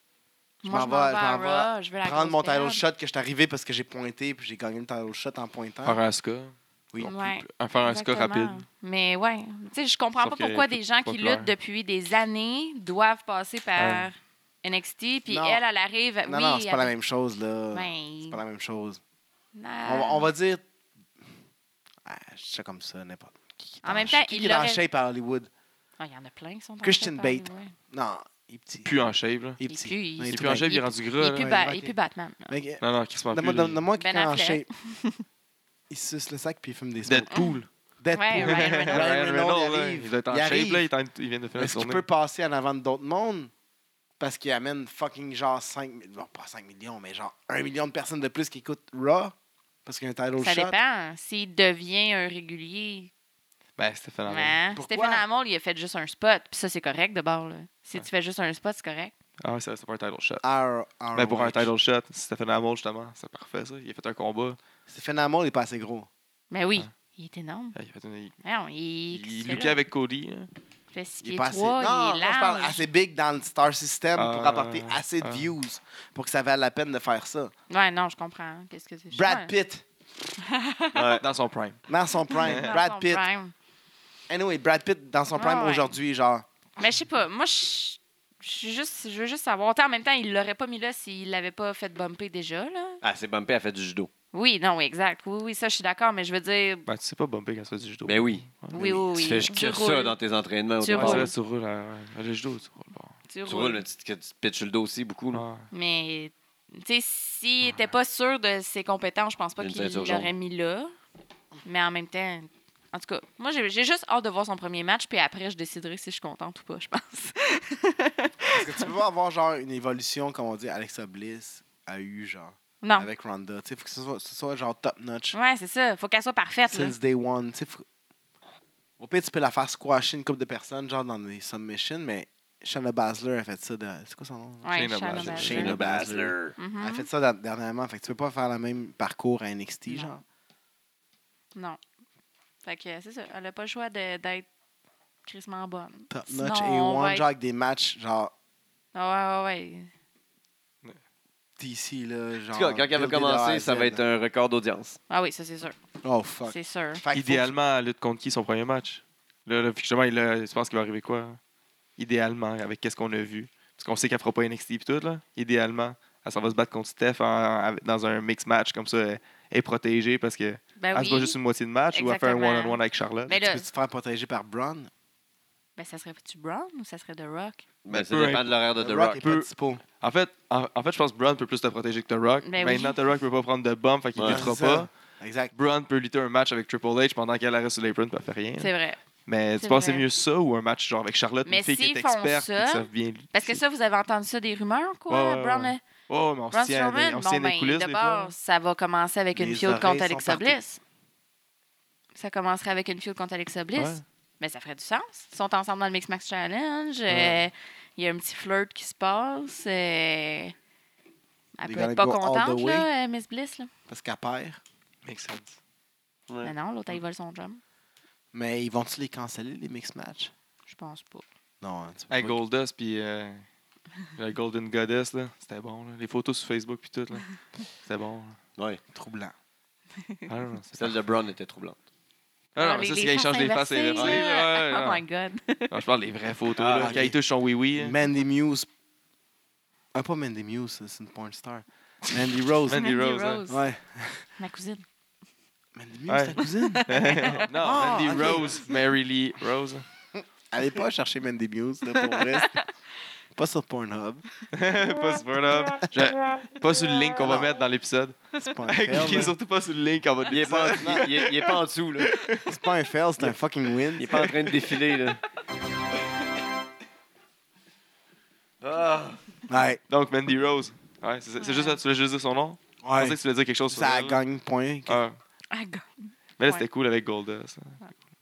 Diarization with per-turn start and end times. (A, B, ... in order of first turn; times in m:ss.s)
0:00.6-0:02.8 A
0:00.7-0:06.0 B
0:05.8-0:08.6 C
0:06.9-0:07.2 B
0:07.0-0:16.9 A
0:10.2-0:11.5 C
0:13.8-0:14.1 C
0:15.3-0:15.6 B
0:16.3-0:19.0 B
0:17.7-0:18.4 A
0:19.6-0:20.3 A
0:19.9-0:20.6 B
0:22.0-0:25.5 B
0:23.8-0:24.8 A
0:26.0-0:27.7 A
0:26.8-0:29.0 B
0:28.9-0:29.6 C
0:29.6-0:30.7 B
0:29.7-0:32.6 A
0:30.3-0:31.5 C
0:31.4-0:32.0 B
0:32.5-0:34.7 B
0:32.8-0:33.8 C
0:34.0-0:35.2 A
0:35.9-0:40.9 B
0:37.1-0:37.6 C
0:37.3-0:37.6 A
0:38.1-0:39.1 A
0:38.4-0:42.0 C
0:41.6-0:43.5 B
0:44.2-0:50.8 B
0:50.4-0:53.1 A
0:53.8-0:54.6 C
0:54.3-0:59.1 A
0:54.8-0:55.2 B
0:59.4-1:00.4 C
1:00.4-1:01.7 B
1:01.1-1:04.6 C
1:04.9-1:06.1 B
1:06.5-1:07.8 A
1:07.8-1:08.4 C
1:08.4-1:09.8 A
1:09.1-1:10.5 C
1:10.9-1:12.8 A
1:11.2-1:17.5 B
1:14.2-1:15.5 C
1:17.7-1:19.5 A
1:19.1-1:19.8 B
1:20.4-1:21.2 A
1:20.9-1:21.2 D
1:21.2-1:21.8 C
1:21.9-1:23.2 B
1:22.3-1:23.5 A
1:22.4-1:22.7 C
1:24.3-1:26.5 B
1:25.3-1:26.0 A
1:26.8-1:33.0 A
1:33.0-1:34.1 D
1:34.3-1:36.9 A
1:36.9-1:38.8 C
1:38.1-1:41.3 D
1:38.7-1:40.2 A
1:40.8-1:41.3 A
1:40.9-1:43.2 C
1:43.3-1:43.9 A
1:43.5-1:45.4 D
1:45.3-1:45.7 C
1:45.7-1:50.9 A
1:49.6-1:50.3 D
1:51.6-1:58.9 A
1:58.5-2:05.4 B
2:02.8-2:03.1 A
2:05.3-2:06.9 A
2:06.7-2:07.8 B
2:09.0-2:20.2 B
2:14.6-2:15.8 A
2:14.7-2:16.0 C
2:15.3-2:16.6 D
2:16.6-2:17.1 A
2:22.6-2:24.5 A
2:25.3-2:27.3 A
2:26.1-2:28.3 B
2:29.0-2:29.9 A
2:31.6-2:34.0 B
2:32.5-2:35.0 D
2:35.1-2:35.8 A
2:36.0-2:37.6 B
2:36.5-2:37.0 A
2:37.1-2:41.4 C
2:42.0-2:53.4 C
2:50.8-2:51.4 A
2:51.9-2:53.7 A
2:53.3-2:54.9 B
2:55.8-2:57.6 A
2:57.8-2:59.2 D
2:57.9-2:58.6 C
2:58.8-2:59.8 B
2:59.2-2:59.5 C
3:00.0-3:04.9 C
3:02.4-3:03.0 A
3:04.2-3:04.4 D
3:04.2-3:05.5 B
3:05.5-3:08.7 C
3:08.6-3:09.0 A
3:09.3-3:13.6 C
3:09.6-3:10.0 A
3:11.5-3:15.8 A
3:15.1-3:18.3 C
3:16.5-3:20.8 A
3:19.3-3:20.6 B
3:22.2-3:30.5 A
3:23.8-3:24.0 C
3:31.6-3:33.7 A
3:31.6-3:32.9 B
3:33.9-3:34.6 B
3:35.0-3:35.6 C
3:36.4-3:37.6 A
3:38.3-3:40.3 B
3:40.7-3:41.2 A
3:41.6-3:42.4 B
3:42.1-3:43.4 C
3:44.2-3:48.4 C
3:48.9-3:49.3 B
3:50.3-3:51.0 C
3:50.8-3:51.8 D
3:52.6-3:55.0 C
3:52.6-3:55.8 A
3:54.0-3:54.2 D
3:55.7-3:58.0 C
3:56.6-3:57.0 D
3:56.7-3:57.2 B
3:57.8-3:58.7 B
3:59.9-4:02.9 B
4:02.0-4:03.4 C
4:02.7-4:03.6 A
4:03.5-4:04.3 B
4:04.4-4:04.8 A
4:05.8-4:08.6 B
4:06.1-4:09.9 C
4:06.4-4:08.4 A
4:10.2-4:12.6 B
4:12.0-4:12.7 A
4:13.4-4:14.2 B
4:14.5-4:22.5 C
4:17.2-4:17.5 B
4:18.4-4:19.3 B
4:20.3-4:22.2 D
4:20.5-4:21.1 B
4:22.5-4:24.3 B
4:24.0-4:25.2 D
4:28.6-4:29.2 D
4:29.5-4:29.8 B
4:29.9-4:34.2 C
4:31.4-4:31.8 A
4:32.8-4:33.2 B
4:33.7-4:35.0 B
4:34.9-4:35.2 C
4:35.5-4:36.6 A
4:36.4-4:37.8 C